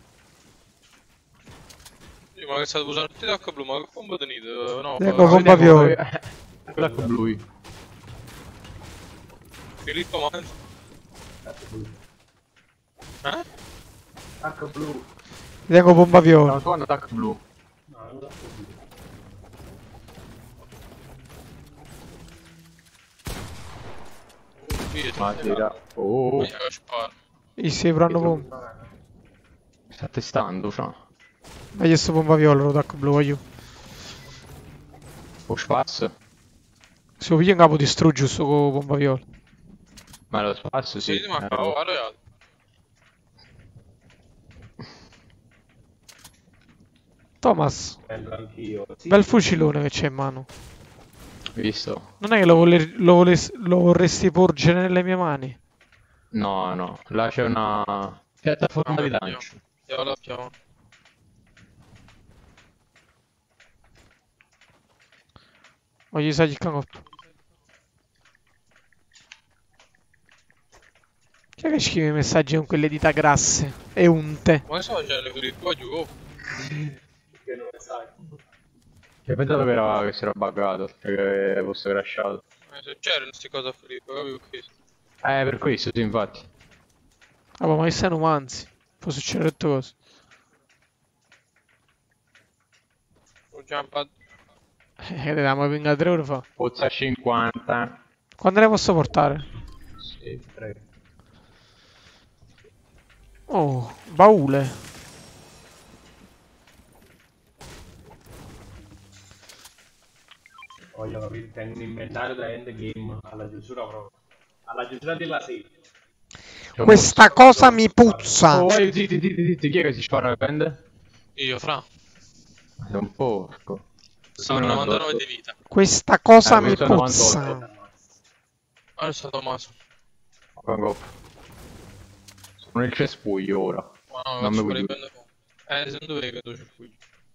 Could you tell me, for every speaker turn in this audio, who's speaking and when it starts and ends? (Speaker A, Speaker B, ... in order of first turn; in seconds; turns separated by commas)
Speaker A: 2.4-5.7, Speaker B: 5.0-6.0, Speaker C: 5.0-7.4, Speaker D: 6.7-7.1, Speaker A: 9.8-10.5, Speaker D: 11.4-12.0, Speaker D: 14.4-15.0, Speaker B: 15.7-16.6, Speaker C: 16.4-17.4, Speaker D: 17.9-18.8, Speaker A: 24.6-25.7, Speaker C: 25.2-26.5, Speaker A: 26.4-27.1, Speaker B: 27.6-28.4, Speaker D: 28.2-28.8, Speaker C: 29.9-31.0, Speaker B: 31.8-33.4, Speaker C: 35.5-36.1, Speaker B: 37.2-39.2, Speaker C: 40.3-41.8, Speaker A: 41.0-42.1, Speaker B: 47.4-48.0, Speaker D: 48.0-49.3, Speaker B: 49.1-50.5, Speaker C: 51.5-52.1, Speaker B: 52.2-55.6, Speaker C: 56.3-59.6, Speaker A: 58.8-60.5, Speaker B: 66.1-67.0, Speaker B: 71.6-74.6, Speaker A: 74.7-76.1, Speaker D: 77.4-78.1, Speaker C: 79.2-82.4, Speaker A: 82.7-84.7, Speaker C: 85.2-86.5, Speaker B: 87.6-89.9, Speaker A: 93.5-94.1, Speaker B: 95.0-96.4, Speaker C: 96.6-98.0, Speaker B: 98.4-99.5, Speaker D: 100.2-100.8, Speaker B: 103.5-104.8, Speaker D: 110.9-114.1, Speaker D: 114.7-115.7, Speaker C: 116.8-117.5, Speaker B: 116.8-118.7, Speaker D: 117.2-118.3, Speaker C: 118.5-120.8, Speaker A: 121.4-121.8, Speaker C: 122.8-123.8, Speaker A: 124.4-125.5, Speaker C: 124.4-125.2, Speaker B: 125.7-127.6, Speaker C: 126.4-127.5, Speaker D: 126.6-127.9, Speaker A: 129.0-129.7, Speaker C: 130.6-131.1, Speaker C: 132.6-134.9, Speaker A: 134.1-136.9